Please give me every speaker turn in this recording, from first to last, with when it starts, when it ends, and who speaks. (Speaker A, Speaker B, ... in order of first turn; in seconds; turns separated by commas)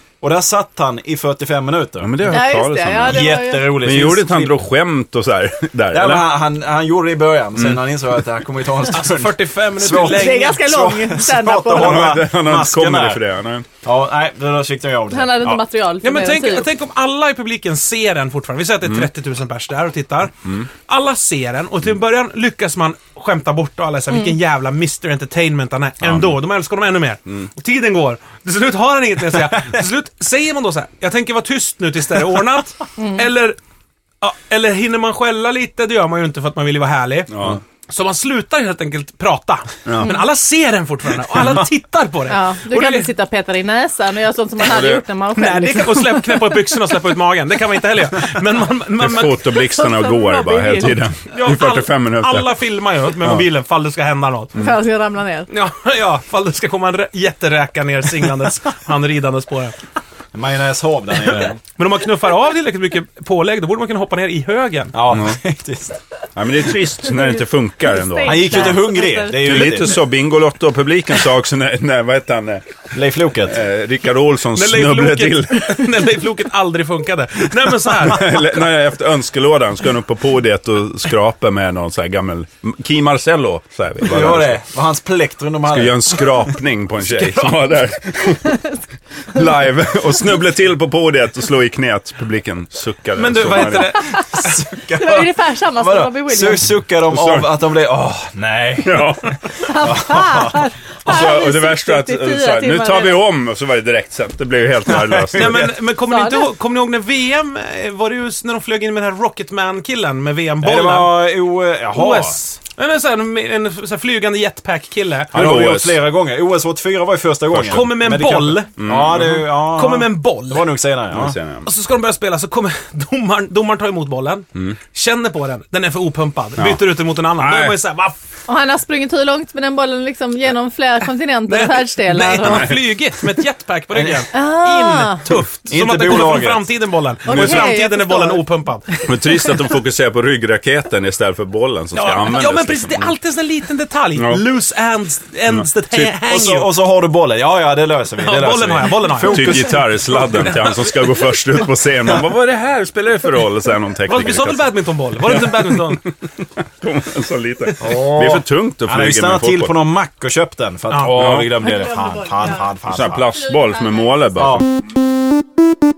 Speaker A: 0.2-2.4, Speaker B: 2.0-6.2, Speaker C: 2.3-3.8, Speaker A: 3.0-4.6, Speaker A: 5.9-13.2, Speaker D: 8.9-10.6, Speaker C: 9.9-12.2, Speaker B: 11.7-13.7, Speaker A: 13.8-15.6, Speaker C: 15.1-16.7, Speaker D: 16.0-33.6, Speaker B: 26.0-26.3, Speaker D: 34.2-43.1, Speaker B: 37.3-37.6, Speaker C: 42.3-46.6, Speaker B: 44.6-45.0, Speaker D: 45.4-49.5, Speaker B: 49.0-52.5, Speaker C: 49.6-51.0, Speaker D: 51.3-54.6, Speaker C: 54.6-55.5, Speaker D: 55.5-59.8, Speaker A: 60.3-61.6, Speaker D: 61.8-65.0, Speaker A: 64.9-66.0, Speaker B: 65.1-65.4, Speaker B: 66.4-72.6, Speaker C: 67.9-69.4, Speaker A: 68.2-70.0, Speaker A: 72.9-73.6, Speaker B: 73.4-75.8, Speaker D: 74.5-78.5, Speaker B: 78.0-84.6, Speaker A: 84.0-86.2, Speaker B: 85.7-88.8, Speaker D: 87.0-87.5, Speaker B: 89.3-94.1, Speaker D: 93.2-94.6, Speaker A: 94.3-99.1, Speaker C: 94.9-96.7, Speaker B: 97.1-97.5, Speaker B: 98.8-99.4, Speaker C: 99.6-103.2, Speaker A: 99.7-100.7, Speaker B: 101.0-105.7, Speaker A: 104.9-105.7, Speaker D: 105.4-111.3, Speaker C: 106.1-106.5, Speaker A: 110.6-112.4, Speaker D: 111.9-115.4, Speaker B: 115.3-116.0, Speaker A: 115.3-121.4, Speaker B: 117.5-118.0, Speaker D: 117.7-120.7, Speaker B: 118.8-119.5, Speaker B: 121.1-121.7, Speaker D: 121.7-128.2, Speaker B: 127.4-127.8, Speaker C: 128.5-132.7, Speaker D: 131.5-139.0, Speaker B: 132.4-132.8, Speaker A: 133.9-134.2, Speaker C: 134.3-135.3, Speaker A: 135.7-136.7, Speaker C: 137.2-138.4, Speaker B: 137.3-137.7, Speaker B: 139.0-143.2, Speaker D: 141.9-146.7, Speaker B: 144.2-144.4, Speaker B: 145.5-146.1, Speaker A: 146.2-149.9, Speaker D: 148.2-150.8, Speaker B: 149.2-154.6, Speaker D: 154.1-156.0, Speaker B: 155.2-156.0, Speaker B: 156.8-159.7, Speaker A: 157.8-163.2, Speaker D: 160.9-161.2, Speaker B: 161.1-161.6, Speaker C: 161.6-162.7, Speaker B: 162.9-164.6, Speaker C: 163.3-164.2, Speaker A: 164.4-164.6